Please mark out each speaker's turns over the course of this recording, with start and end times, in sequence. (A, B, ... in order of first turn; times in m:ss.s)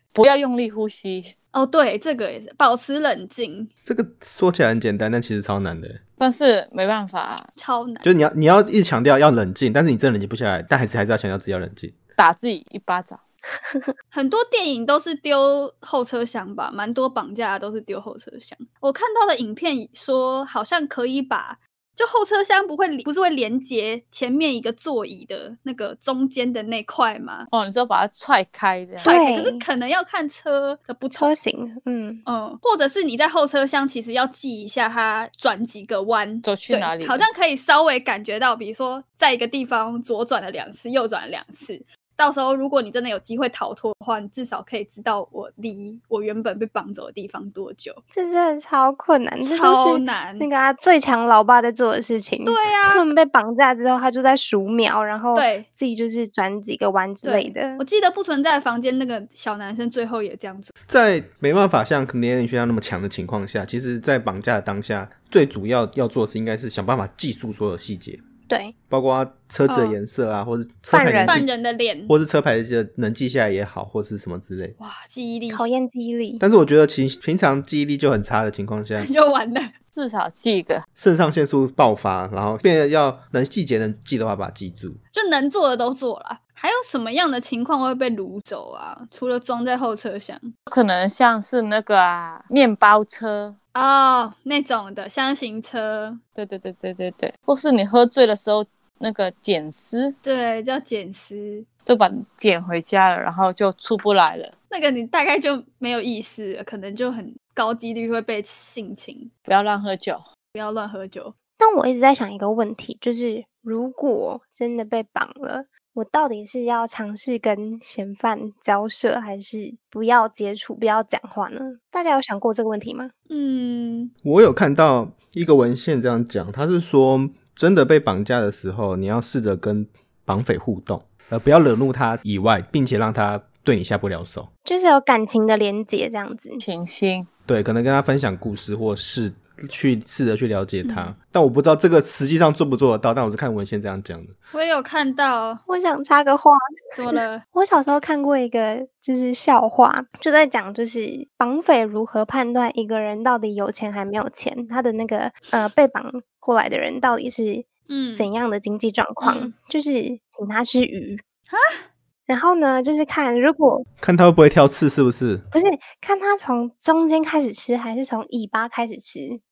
0:00.1-0:01.3 A
0:01.5-0:03.7 B
0:03.9-0:06.0 C
0:06.2-0:07.5 A
0:07.6-0:08.1 B
0:08.0-0:12.0 C
0:12.2-0:13.2 A
0:14.1-0:27.5 B
0:27.5-0:29.2 A
0:29.0-0:31.3 B
0:29.0-0:29.6 D
0:31.1-0:32.2 D
0:32.3-0:48.0 B
0:36.4-0:37.3 A
0:48.1-0:57.8 D
0:49.4-0:50.5 B
0:52.4-0:53.1 B
0:55.3-0:55.7 B
0:57.2-1:00.7 B
1:00.9-1:08.2 C
1:08.5-1:08.7 D
1:08.9-1:11.5 C
1:09.7-1:10.0 B
1:10.9-1:11.4 D
1:11.2-1:12.1 B
1:12.1-1:14.8 C
1:14.8-1:15.7 B
1:15.5-1:16.4 D
1:16.4-1:19.1 C
1:19.0-1:19.7 B
1:19.9-1:20.8 A
1:21.0-1:25.0 C
1:25.1-1:30.5 B
1:30.7-1:33.6 A
1:33.8-1:36.2 B
1:36.4-1:40.2 A
1:40.2-1:41.7 B
1:41.9-1:44.5 A
1:44.7-1:49.3 B
1:49.5-1:50.2 A
1:50.5-1:51.3 B
1:51.6-2:03.1 D
2:03.3-2:04.1 B
2:04.2-2:14.5 C
2:14.6-2:16.6 D
2:16.6-2:17.3 A
2:17.5-2:24.4 C
2:20.8-2:21.2 B
2:24.5-2:25.6 B
2:25.7-2:26.6 D
2:27.0-2:27.4 B
2:27.1-2:41.2 D
2:37.9-2:38.3 B
2:39.2-2:39.5 B
2:41.5-2:41.8 B
2:42.3-2:43.9 D
2:44.0-2:45.4 C
2:45.5-2:49.4 D